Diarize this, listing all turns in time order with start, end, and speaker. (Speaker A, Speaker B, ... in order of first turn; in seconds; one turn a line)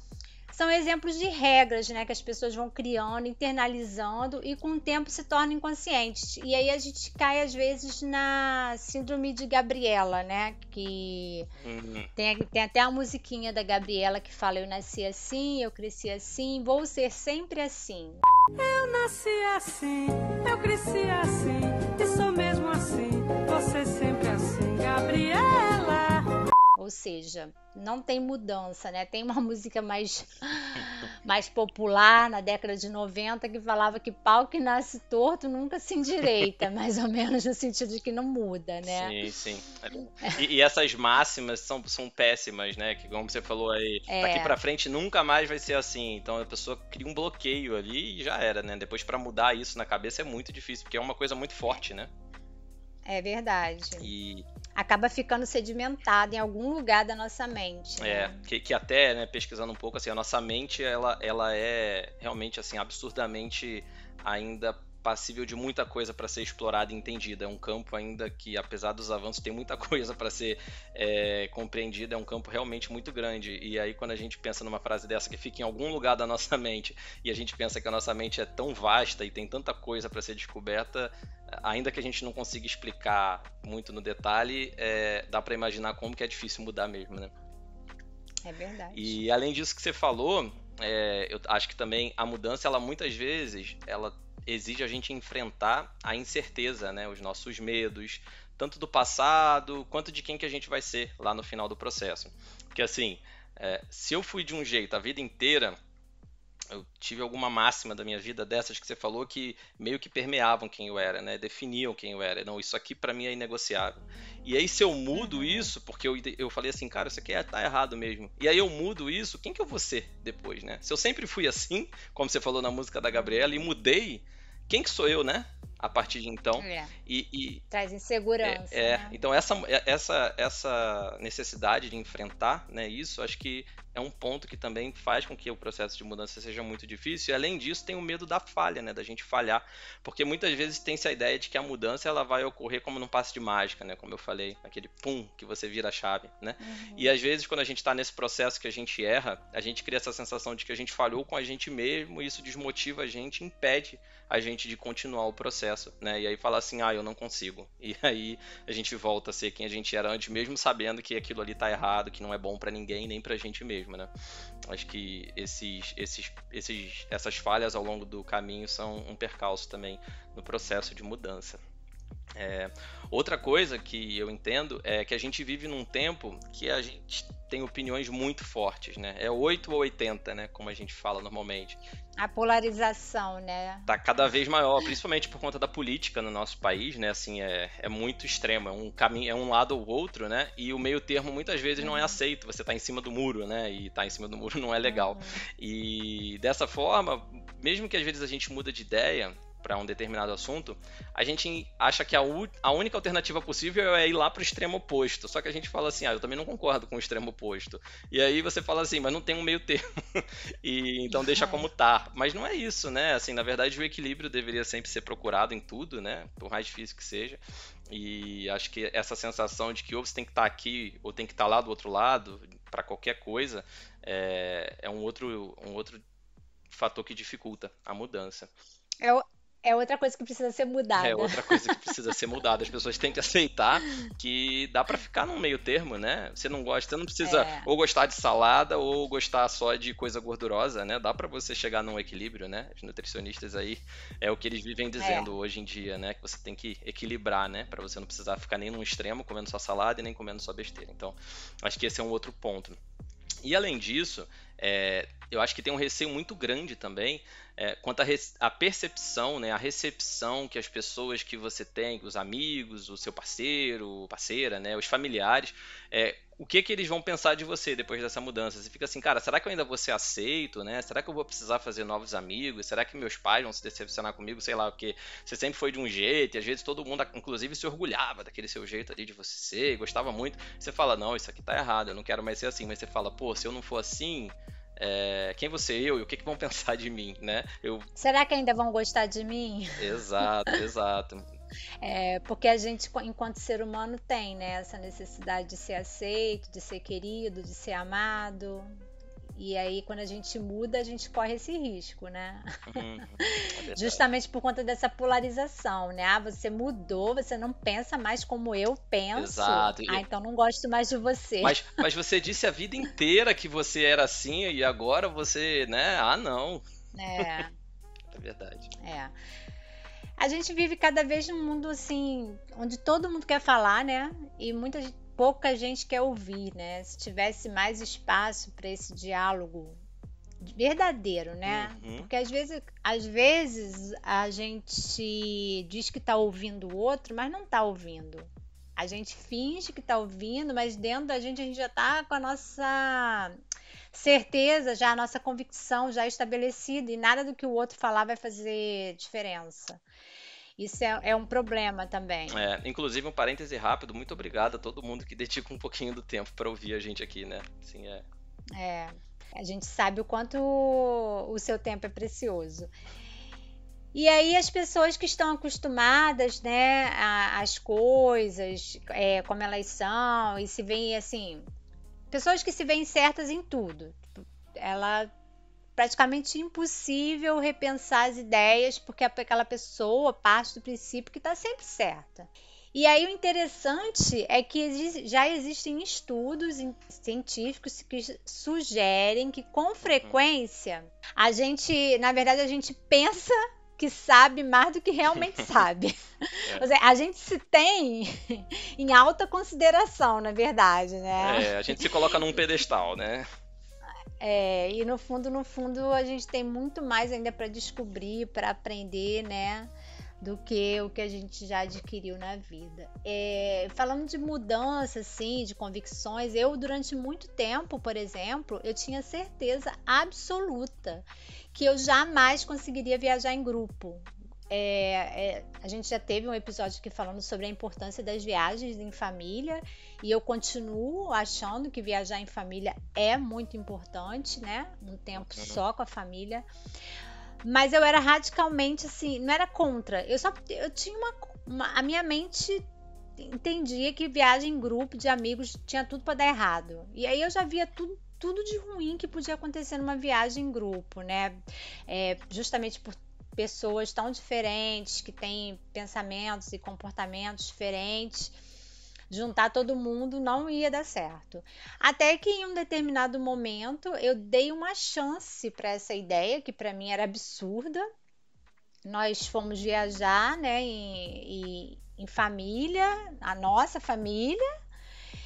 Speaker A: 0.5-11.5
Speaker B: 11.6-12.1
Speaker A: 12.2-18.2
Speaker C: 18.6-26.4
Speaker A: 26.8-39.2
Speaker B: 38.8-52.1
Speaker A: 44.1-44.6
Speaker A: 53.0-54.1
Speaker B: 54.0-54.5
Speaker A: 54.8-58.4
Speaker B: 58.0-87.3
Speaker A: 88.4-89.2
Speaker B: 88.9-105.8
Speaker B: 106.7-127.6
Speaker A: 115.1-115.7
Speaker A: 123.2-123.7
Speaker A: 126.6-126.9
Speaker A: 127.7-129.2
Speaker B: 128.4-164.1
Speaker A: 146.6-147.1
Speaker B: 164.7-171.6
Speaker B: 172.3-181.8
Speaker A: 182.2-183.9
Speaker B: 183.9-226.0
Speaker A: 191.8-192.2
Speaker A: 194.8-195.4
Speaker A: 211.1-211.7
Speaker B: 226.7-228.5
Speaker A: 229.0-231.9
Speaker B: 231.0-252.8
Speaker A: 237.2-237.7
Speaker A: 245.0-245.3
Speaker B: 253.4-287.9
Speaker A: 288.0-290.0
Speaker B: 289.8-291.3
Speaker A: 291.8-298.8
Speaker A: 299.3-311.8
Speaker B: 302.7-304.0
Speaker B: 309.1-310.0
Speaker B: 311.4-316.6
Speaker A: 316.9-317.6
Speaker B: 318.1-318.7
Speaker A: 318.8-319.1
Speaker A: 320.2-329.8
Speaker A: 330.4-343.4
Speaker B: 331.5-332.1
Speaker A: 343.9-349.8
Speaker A: 350.6-352.5
Speaker B: 352.3-358.1
Speaker A: 358.5-362.7
Speaker A: 363.9-371.5
Speaker A: 372.1-375.1
Speaker A: 375.8-401.9
Speaker B: 389.8-390.2
Speaker B: 396.4-396.7
Speaker B: 401.2-403.3
Speaker A: 404.2-436.5
Speaker B: 435.2-435.6
Speaker A: 437.4-442.7
Speaker A: 443.2-458.4
Speaker A: 459.1-467.9
Speaker A: 468.9-474.4